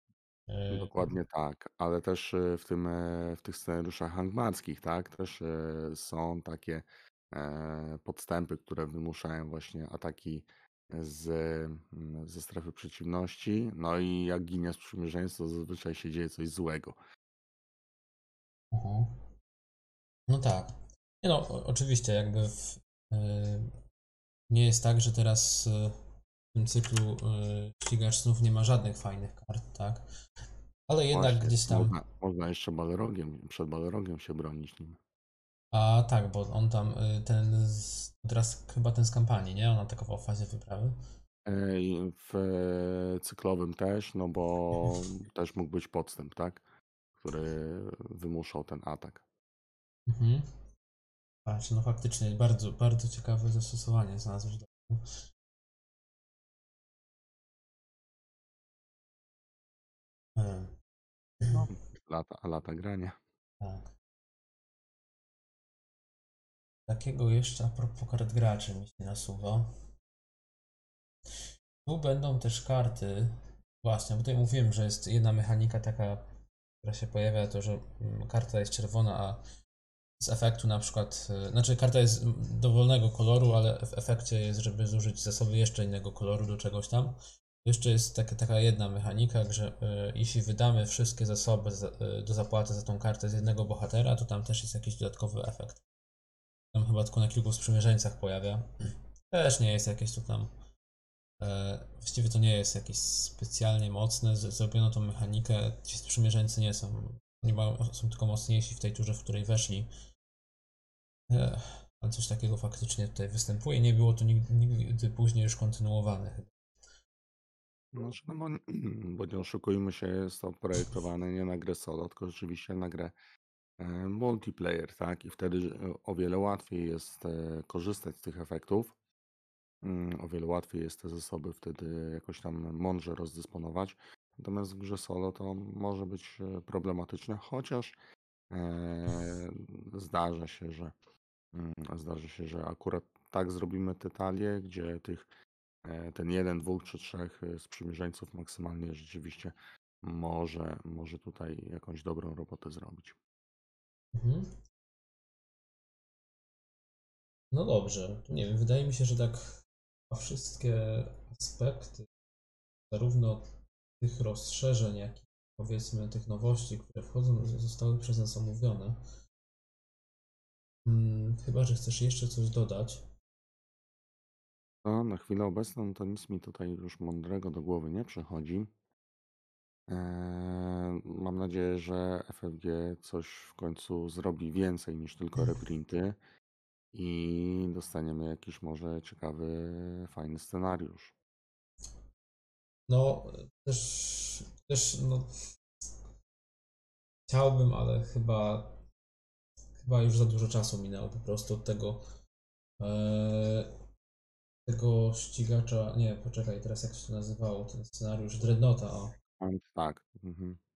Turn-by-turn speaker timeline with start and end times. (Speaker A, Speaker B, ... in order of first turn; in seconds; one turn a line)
Speaker A: 0.5-1.1
Speaker B: 0.7-16.9
Speaker A: 18.7-19.3
Speaker A: 20.3-23.7
Speaker A: 24.5-25.9
Speaker A: 26.5-30.1
Speaker A: 30.9-32.0
Speaker B: 31.1-35.0
Speaker A: 35.7-41.0
Speaker B: 41.5-46.6
Speaker B: 47.1-49.2
Speaker A: 50.1-50.5
Speaker A: 51.5-55.1
Speaker A: 60.4-60.8
Speaker A: 61.4-61.7
Speaker B: 61.5-63.2
Speaker A: 63.6-63.9
Speaker A: 66.9-69.7
Speaker A: 71.8-76.3
Speaker A: 76.8-79.4
Speaker A: 80.2-95.8
Speaker A: 96.7-98.7
Speaker A: 99.3-100.5
Speaker A: 101.4-109.9
Speaker A: 111.3-116.5
Speaker B: 117.9-123.1
Speaker B: 123.8-128.9
Speaker B: 129.8-137.9
Speaker B: 138.5-140.9
Speaker B: 141.5-145.3
Speaker B: 145.8-153.2
Speaker A: 154.1-154.6
Speaker A: 157.5-159.4
Speaker A: 160.1-162.1
Speaker A: 162.9-169.0
Speaker A: 170.8-173.1
Speaker B: 174.8-178.7
Speaker B: 179.9-186.2
Speaker B: 186.9-191.1
Speaker A: 192.9-195.3
Speaker A: 197.3-198.8
Speaker A: 199.8-202.0
Speaker A: 202.8-203.7
Speaker A: 204.7-209.2
Speaker B: 209.4-210.6